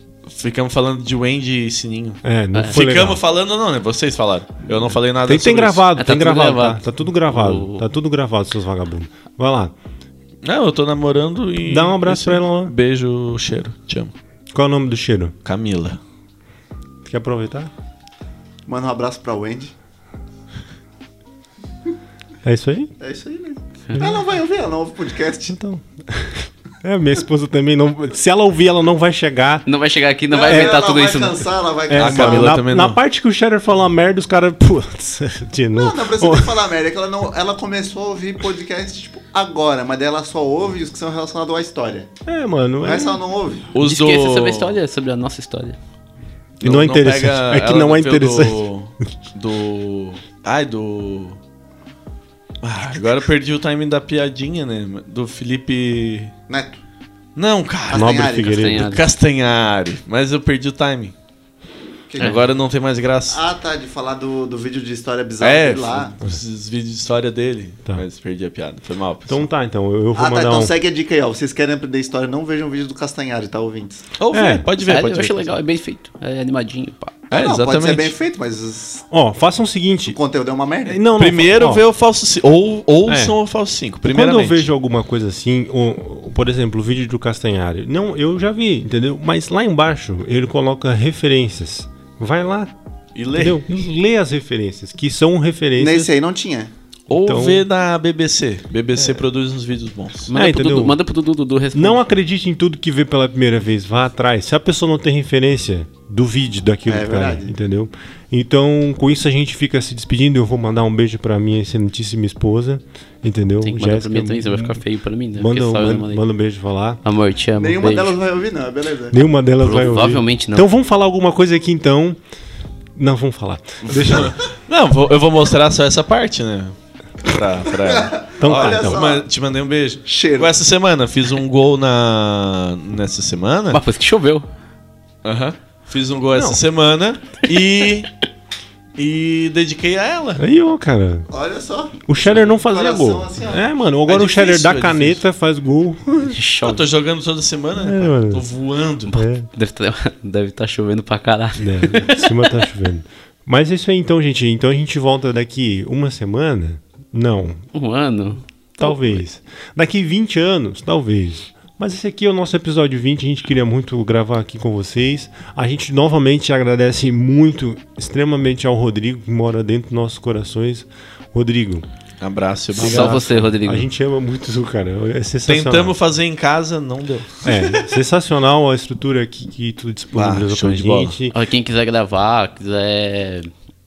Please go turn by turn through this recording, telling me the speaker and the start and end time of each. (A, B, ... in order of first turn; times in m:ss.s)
0:00.3-0:05.8 A
0:02.2-0:03.2 B
0:05.2-0:09.7 B
0:06.0-0:07.8 C
0:10.4-0:14.1 A
0:11.7-0:12.7 B
0:14.5-0:15.3 B
0:15.4-0:16.0 A
0:17.0-0:17.7 B
0:18.7-0:19.7 D
0:22.4-0:22.9 B
0:23.0-0:25.6 D
0:25.5-0:29.6 B
0:29.6-0:31.5 C
0:30.3-0:32.6 D
0:30.4-0:30.8 B
0:31.9-0:36.6 B
0:31.9-0:33.0 A
0:35.8-0:42.1 D
0:42.3-0:43.2 B
0:42.8-0:43.7 D
0:43.7-0:44.8 A
0:43.8-0:45.8 C
0:46.6-0:48.6 B
0:46.6-0:51.4 A
0:52.6-0:56.3 A
0:56.5-0:56.8 D
0:57.4-1:01.1 A
0:57.9-0:58.7 D
0:57.9-0:59.0 B
0:58.5-0:59.0 C
1:02.1-1:02.5 D
1:02.2-1:03.4 A
1:03.3-1:06.1 D
1:05.4-1:09.5 A
1:09.3-1:10.7 B
1:10.2-1:14.1 D
1:14.2-1:15.6 A
1:14.3-1:14.7 B
1:14.8-1:17.1 C
1:17.3-1:18.1 A
1:17.3-1:19.0 D
1:19.1-1:20.2 B
1:20.0-1:21.0 D
1:20.8-1:21.8 B
1:21.1-1:24.7 A
1:23.1-1:23.4 B
1:24.1-1:32.7 B
1:33.1-1:33.6 A
1:33.3-1:36.1 B
1:35.8-1:36.7 D
1:37.1-1:40.3 A
1:37.2-1:37.6 B
1:40.3-1:42.0 C
1:40.3-1:41.0 B
1:41.7-1:54.8 B
1:46.8-1:47.5 D
1:53.6-1:56.2 C
1:55.3-1:57.0 B
1:57.0-1:58.2 C
1:57.6-1:59.2 D
1:59.1-2:02.2 B
1:59.6-2:00.7 C
2:03.0-2:04.4 B
2:04.0-2:13.8 A
2:07.8-2:09.3 D
2:08.4-2:09.0 B
2:10.0-2:10.5 D
2:13.7-2:14.5 C
2:15.2-2:18.1 A
2:19.0-2:20.4 A
2:20.4-2:21.3 B
2:21.3-2:23.7 D
2:22.1-2:26.4 B
2:24.0-2:25.2 A
2:26.2-2:26.8 C
2:26.6-2:29.2 A
2:27.8-2:28.4 B
2:29.0-2:32.5 C
2:29.1-2:29.4 B
2:31.6-2:37.6 B
2:37.7-2:39.2 C
2:38.8-2:51.8 B
2:52.2-2:53.5 A
2:52.7-2:56.0 B
2:52.8-2:53.9 C
2:55.5-2:57.8 A
2:57.4-3:01.3 B
3:00.1-3:01.2 A
3:01.3-3:03.5 C